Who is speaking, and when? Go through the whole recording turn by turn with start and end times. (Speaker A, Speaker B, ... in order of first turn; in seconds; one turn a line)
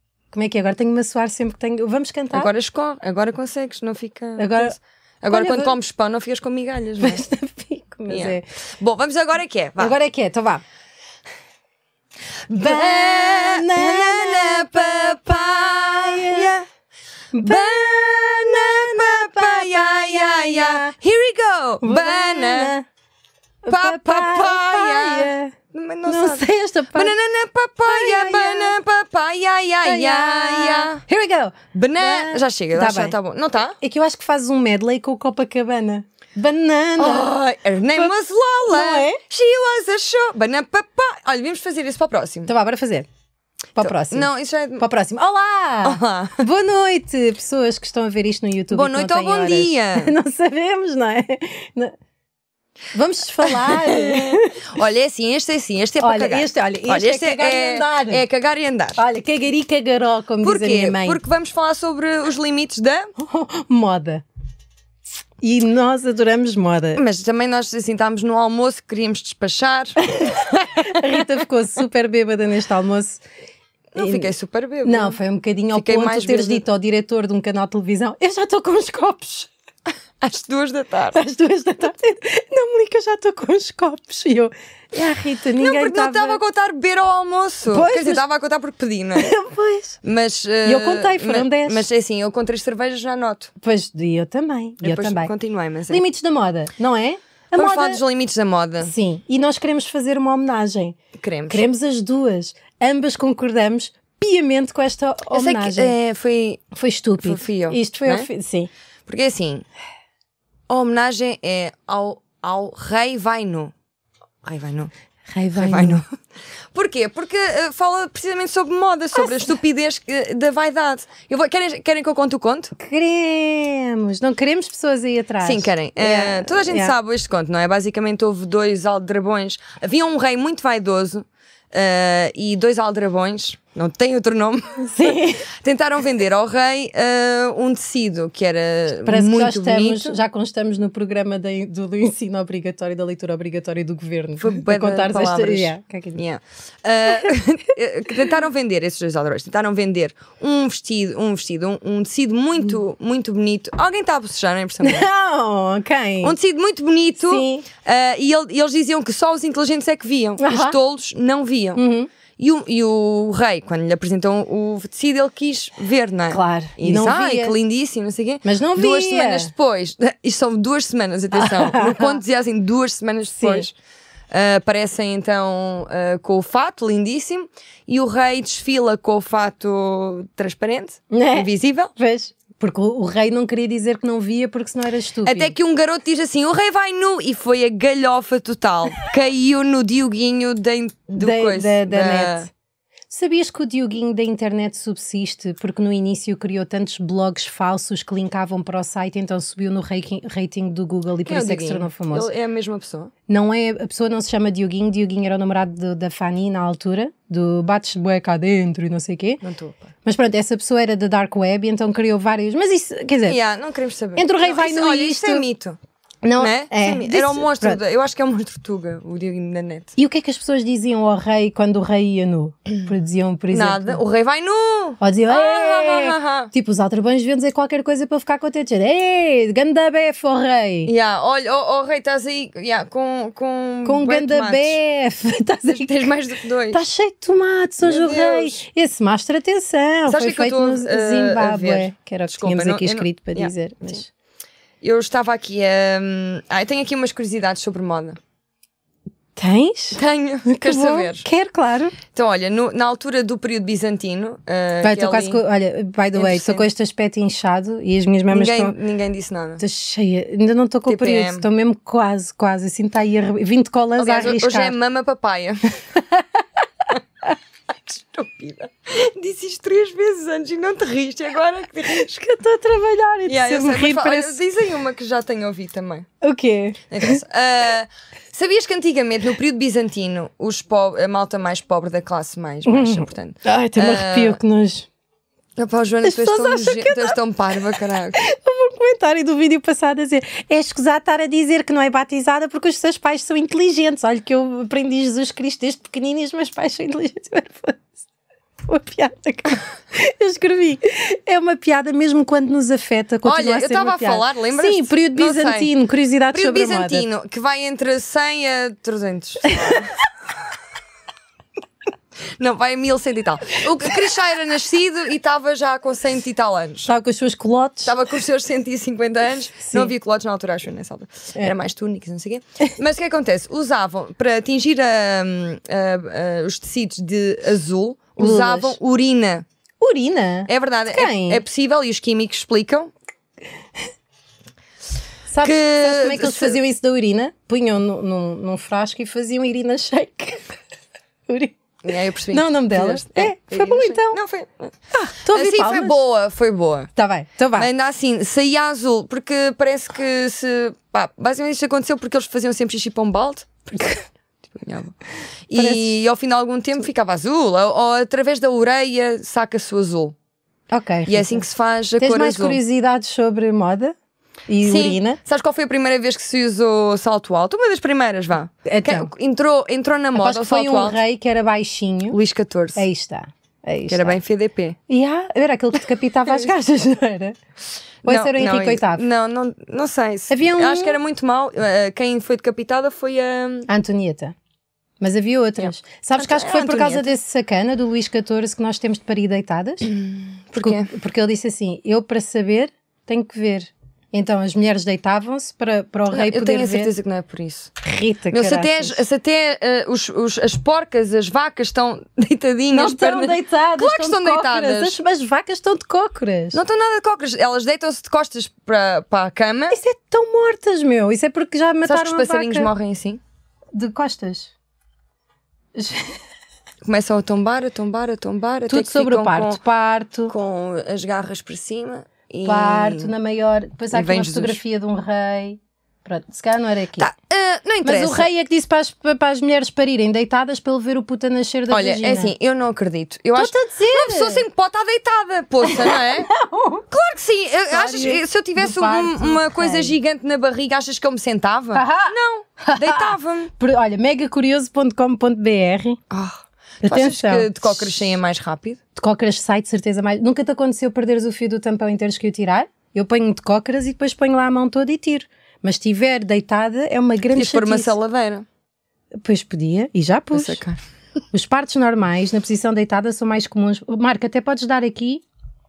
Speaker A: 0.3-2.5
Speaker B: 2.3-7.2
Speaker A: 4.4-4.7
Speaker A: 5.3-5.8
Speaker A: 7.0-8.4
Speaker B: 8.1-9.9
Speaker A: 9.8-10.6
Speaker B: 12.5-16.6
Speaker A: 12.5-16.6
Speaker A: 17.3-20.9
Speaker B: 17.4-22.7
Speaker A: 21.8-22.9
Speaker A: 23.6-25.5
Speaker B: 23.7-31.0
Speaker A: 26.1-27.1
Speaker A: 27.9-28.8
Speaker A: 29.8-33.1
Speaker B: 31.7-33.8
Speaker A: 33.8-37.3
Speaker B: 37.0-42.5
Speaker A: 38.7-39.2
Speaker A: 42.5-43.1
Speaker A: 43.8-44.3
Speaker B: 43.8-44.9
Speaker A: 44.8-52.0
Speaker B: 45.8-46.4
Speaker B: 48.7-50.1
Speaker A: 52.9-54.6
Speaker B: 53.4-59.0
Speaker A: 56.0-58.2
Speaker A: 59.0-61.2
Speaker B: 60.4-63.1
Speaker A: 63.2-64.2
Speaker A: 65.4-67.0
Speaker B: 67.0-71.2
Speaker A: 70.0-73.2
Speaker B: 73.9-75.2
Speaker A: 74.0-74.3
Speaker A: 74.8-79.5
Speaker B: 75.7-76.6
Speaker B: 80.2-81.2
Speaker A: 81.1-86.4
Speaker B: 85.6-89.3
Speaker A: 87.7-88.2
Speaker A: 89.2-90.0
Speaker B: 90.0-93.5
Speaker A: 90.6-91.8
Speaker A: 93.6-95.3
Speaker B: 94.8-96.0
Speaker A: 95.9-98.0
Speaker B: 97.5-98.9
Speaker A: 98.8-101.0
Speaker B: 101.2-101.7
Speaker A: 101.5-105.9
Speaker B: 105.3-106.6
Speaker A: 106.7-108.7
Speaker B: 107.2-108.3
Speaker B: 109.1-109.7
Speaker B: 110.7-113.7
Speaker B: 114.4-114.9
Speaker A: 115.3-116.0
Speaker B: 115.5-116.1
Speaker B: 116.7-122.7
Speaker A: 119.1-119.5
Speaker A: 122.8-126.9
Speaker B: 125.4-140.2
Speaker A: 134.8-135.4
Speaker A: 139.0-146.2
Speaker B: 144.4-155.1
Speaker A: 154.8-156.3
Speaker B: 156.2-161.8
Speaker A: 157.2-157.7
Speaker A: 160.4-160.8
Speaker A: 161.8-162.1
Speaker B: 162.4-173.7
Speaker A: 166.3-167.5
Speaker A: 168.4-169.5
Speaker A: 171.3-172.2
Speaker A: 173.3-173.7
Speaker B: 174.3-181.9
Speaker A: 181.1-185.5
Speaker B: 185.2-192.5
Speaker A: 191.2-192.5
Speaker A: 193.1-202.3
Speaker B: 201.2-203.1
Speaker A: 203.3-209.4
Speaker B: 209.4-209.9
Speaker A: 210.0-213.4
Speaker B: 213.3-215.8
Speaker A: 214.2-215.4
Speaker A: 216.2-217.8
Speaker B: 216.4-219.9
Speaker A: 220.0-224.0
Speaker B: 223.5-226.5
Speaker A: 225.0-230.9
Speaker B: 230.9-234.8
Speaker A: 233.8-236.1
Speaker B: 235.7-236.8
Speaker A: 236.7-244.1
Speaker B: 237.8-238.6
Speaker B: 240.1-244.0
Speaker B: 244.8-248.2
Speaker A: 249.4-252.0
Speaker B: 249.9-251.2
Speaker B: 252.1-255.4
Speaker A: 254.8-258.8
Speaker B: 256.1-256.6
Speaker B: 258.3-259.6
Speaker A: 259.6-264.8
Speaker B: 260.9-261.4
Speaker B: 264.0-265.8
Speaker B: 267.9-272.1
Speaker A: 271.9-274.4
Speaker B: 273.3-276.1
Speaker A: 276.2-277.2
Speaker B: 276.9-284.4
Speaker A: 282.6-284.9
Speaker B: 285.6-288.2
Speaker A: 286.0-287.2
Speaker A: 287.7-297.8
Speaker A: 298.7-307.1
Speaker B: 303.2-305.7
Speaker B: 306.3-309.9
Speaker B: 312.4-316.9
Speaker A: 316.9-317.9
Speaker B: 317.8-329.4
Speaker A: 319.6-319.9
Speaker A: 328.2-328.8
Speaker A: 329.8-331.4
Speaker B: 330.5-332.9
Speaker A: 335.3-340.5
Speaker B: 335.4-336.6
Speaker A: 341.3-341.6
Speaker B: 341.8-344.8
Speaker A: 342.3-344.2
Speaker A: 344.9-346.0
Speaker B: 345.3-346.9
Speaker A: 346.9-347.7
Speaker B: 347.6-354.0
Speaker B: 354.5-355.0
Speaker B: 355.5-360.1
Speaker A: 355.6-355.9
Speaker A: 360.7-361.4
Speaker B: 361.1-362.6
Speaker A: 362.0-363.9
Speaker A: 364.5-365.2
Speaker B: 364.6-371.0
Speaker A: 368.6-369.1
Speaker A: 370.1-372.2
Speaker B: 372.1-372.8
Speaker A: 372.8-374.2
Speaker B: 373.9-374.8
Speaker A: 374.9-377.4
Speaker A: 378.1-379.0
Speaker B: 378.1-383.7
Speaker A: 380.3-381.0
Speaker A: 383.7-384.3
Speaker A: 385.0-389.9
Speaker B: 385.6-387.1
Speaker B: 389.8-390.9
Speaker A: 390.6-396.9
Speaker B: 396.1-397.7
Speaker A: 397.8-399.0
Speaker B: 398.3-405.0
Speaker A: 402.7-406.6
Speaker B: 406.5-409.8
Speaker A: 409.7-412.7
Speaker B: 411.8-413.2
Speaker A: 413.8-414.5
Speaker A: 415.8-416.2
Speaker B: 416.8-419.6
Speaker A: 418.7-420.3
Speaker B: 420.3-423.1
Speaker A: 422.4-427.1
Speaker B: 423.9-424.6
Speaker B: 427.0-428.3
Speaker A: 427.8-432.3
Speaker B: 431.7-436.3
Speaker A: 433.3-434.4
Speaker A: 435.6-436.9
Speaker B: 436.9-443.5
Speaker A: 437.7-439.9
Speaker A: 441.7-446.0
Speaker B: 446.1-448.8
Speaker A: 446.8-448.1
Speaker A: 448.9-457.9
Speaker B: 457.3-458.4
Speaker A: 459.2-460.6
Speaker B: 460.3-460.8
Speaker A: 461.3-465.2